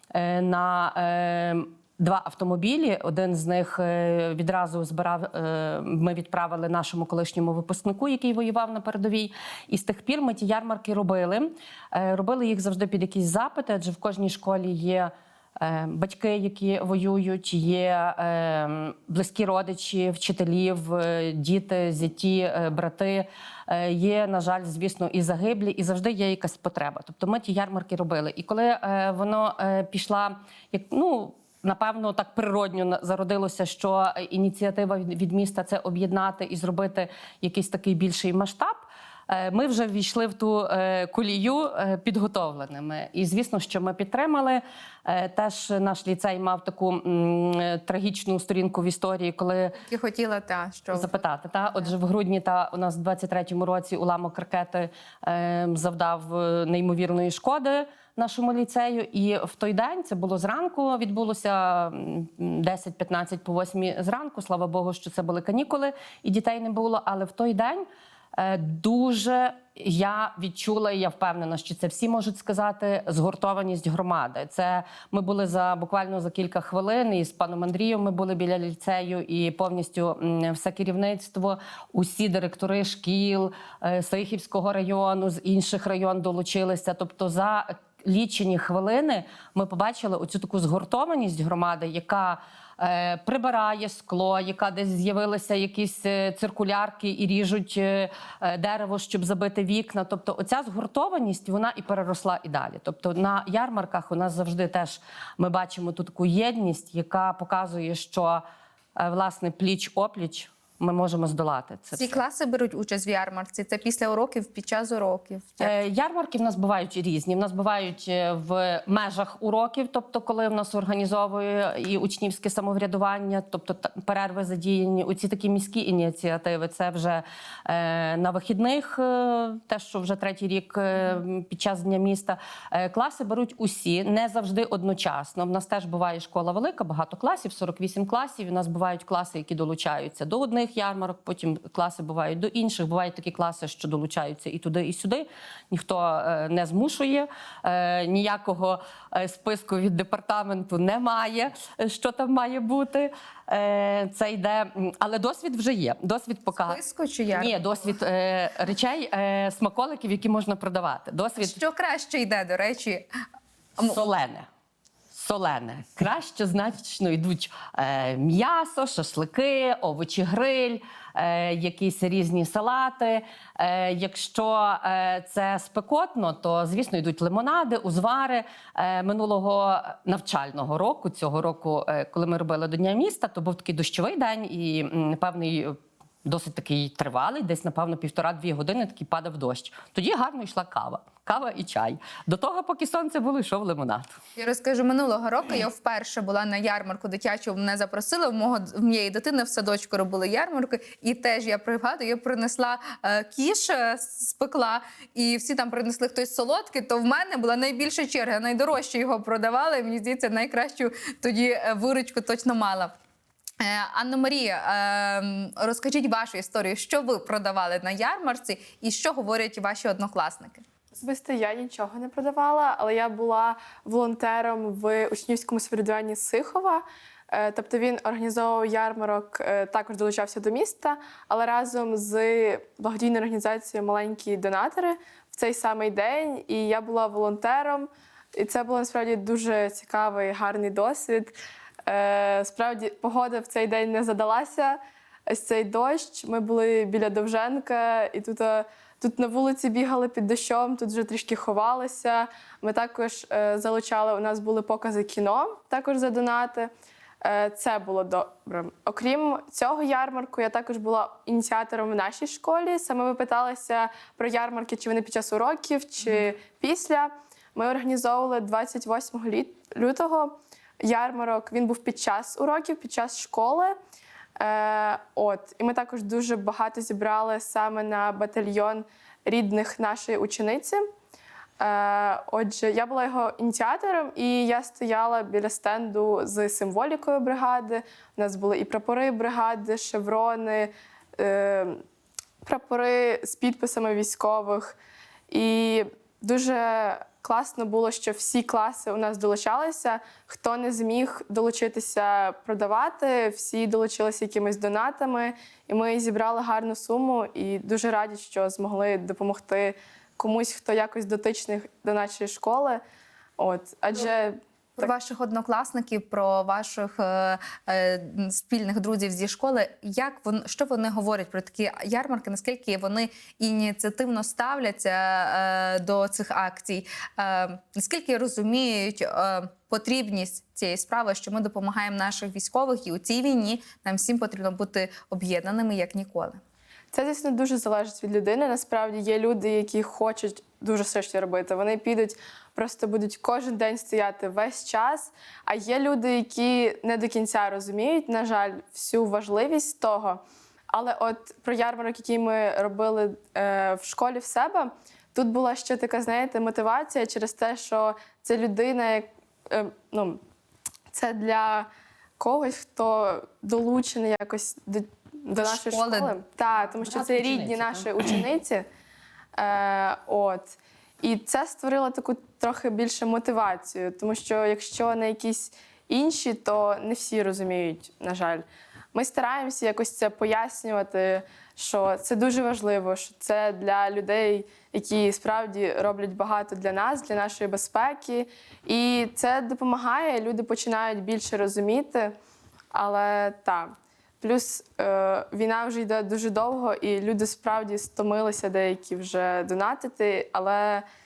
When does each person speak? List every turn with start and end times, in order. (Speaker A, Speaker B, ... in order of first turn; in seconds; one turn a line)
Speaker A: 0.1-49.8
Speaker B: 49.8-51.2
Speaker A: 50.9-108.4
Speaker A: 109.0-112.2
Speaker B: 111.9-115.8
Speaker A: 115.6-156.8
Speaker B: 156.7-157.5
Speaker A: 157.3-161.6
Speaker B: 161.4-163.1
Speaker A: 163.8-164.5
Speaker A: 165.1-194.2
Speaker B: 194.4-212.9
Speaker B: 213.6-220.6
Speaker C: 221.0-256.7
Speaker C: 257.2-273.8
Speaker C: 274.4-280.9
Speaker C: 281.6-291.8
Speaker C: 292.4-294.8
Speaker C: 295.3-312.8
Speaker C: 313.4-314.9
Speaker B: 314.8-336.4
Speaker C: 336.9-360.2
Speaker C: 360.9-361.7
Speaker C: 362.2-368.7
Speaker B: 365.4-366.2
Speaker A: 366.8-368.1
Speaker C: 369.4-392.1
Speaker C: 392.7-400.9